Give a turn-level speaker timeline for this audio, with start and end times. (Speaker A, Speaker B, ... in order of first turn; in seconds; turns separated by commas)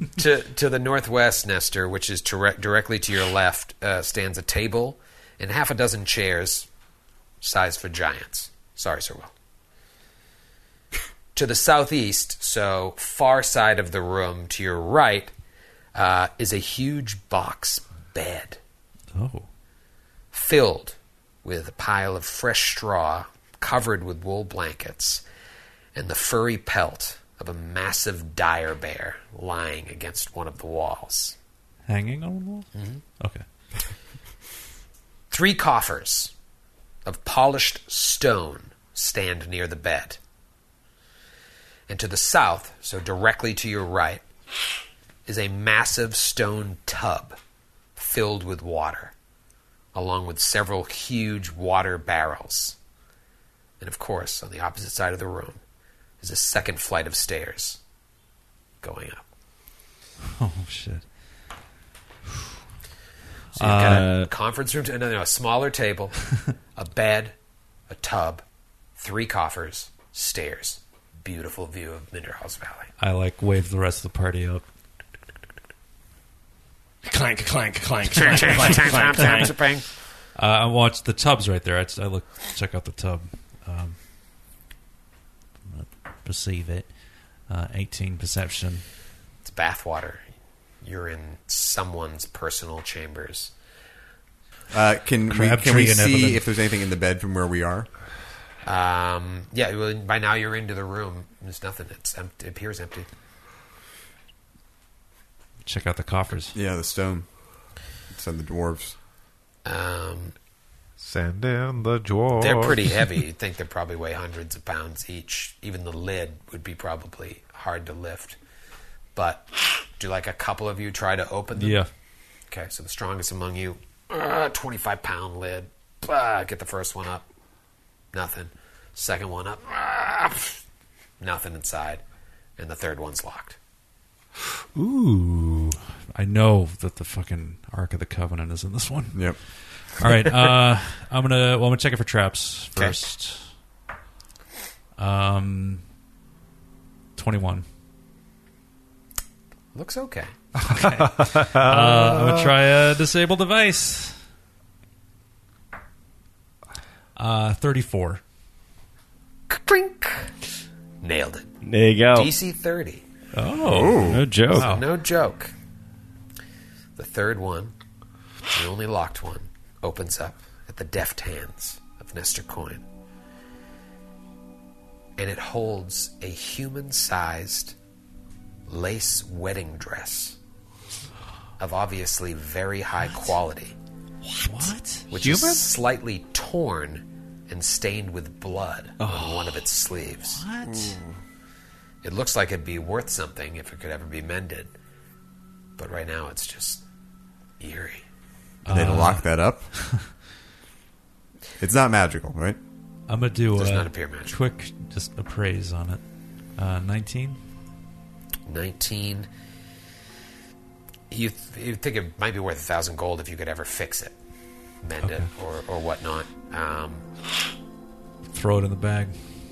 Speaker A: 0.2-6.7, Speaker A: 7.4-9.3, Speaker A: 11.3-15.3, Speaker A: 15.9-18.6, Speaker B: 19.1-19.5, Speaker A: 20.3-25.2, Speaker A: 25.9-31.4, Speaker B: 31.9-33.4, Speaker A: 32.7-33.0, Speaker A: 35.3-36.3, Speaker A: 37.0-40.2, Speaker A: 41.9-44.2, Speaker A: 45.3-47.4, Speaker A: 48.0-49.1, Speaker A: 49.9-52.8, Speaker A: 53.8-55.6, Speaker A: 56.2-57.8, Speaker A: 58.8-59.2, Speaker B: 60.4-61.0, Speaker B: 63.6-64.1, Speaker A: 63.6-67.3, Speaker C: 63.7-64.3, Speaker A: 67.9-68.4, Speaker A: 69.0-72.9, Speaker B: 73.0-74.6, Speaker C: 77.0-79.6, Speaker A: 78.1-79.8, Speaker B: 80.4-84.0, Speaker B: 85.7-86.9, Speaker B: 87.5-88.8, Speaker A: 89.4-90.2, Speaker A: 90.8-93.5, Speaker D: 94.7-97.9, Speaker B: 95.3-96.4, Speaker A: 98.7-103.1, Speaker B: 105.6-106.5, Speaker D: 106.5-107.3, Speaker D: 108.1-108.9, Speaker A: 109.7-110.3, Speaker E: 111.0-113.1, Speaker A: 112.4-118.4, Speaker A: 119.2-121.8, Speaker B: 121.5-121.9, Speaker A: 122.5-127.3, Speaker A: 128.1-130.6, Speaker A: 131.2-132.0, Speaker A: 132.6-133.6, Speaker E: 134.8-135.7, Speaker B: 136.1-143.4, Speaker D: 139.1-139.4, Speaker B: 145.0-145.8, Speaker B: 147.2-147.7, Speaker A: 149.7-150.3, Speaker B: 150.6-154.2, Speaker E: 151.2-152.5, Speaker B: 157.2-158.2, Speaker A: 159.5-160.3, Speaker A: 161.0-161.6, Speaker C: 161.6-162.3, Speaker A: 162.1-163.0, Speaker B: 163.3-164.9, Speaker D: 163.7-164.3, Speaker C: 164.0-164.7, Speaker A: 164.6-165.5, Speaker A: 167.0-167.7, Speaker A: 168.5-172.8, Speaker A: 175.2-177.8, Speaker A: 178.7-180.4, Speaker A: 181.6-183.8, Speaker B: 183.1-183.3, Speaker B: 184.3-185.1, Speaker A: 185.1-190.4, Speaker E: 185.1-185.7, Speaker B: 189.0-189.6, Speaker B: 190.3-191.0, Speaker A: 192.0-194.7, Speaker A: 195.8-196.8, Speaker A: 197.6-198.0, Speaker B: 198.7-200.1, Speaker D: 198.7-199.7, Speaker D: 201.6-202.6, Speaker B: 203.1-206.0, Speaker A: 203.6-204.4, Speaker B: 206.5-207.4, Speaker A: 208.5-209.3, Speaker A: 211.1-214.2, Speaker A: 214.8-217.1, Speaker B: 215.0-215.3, Speaker B: 218.3-219.2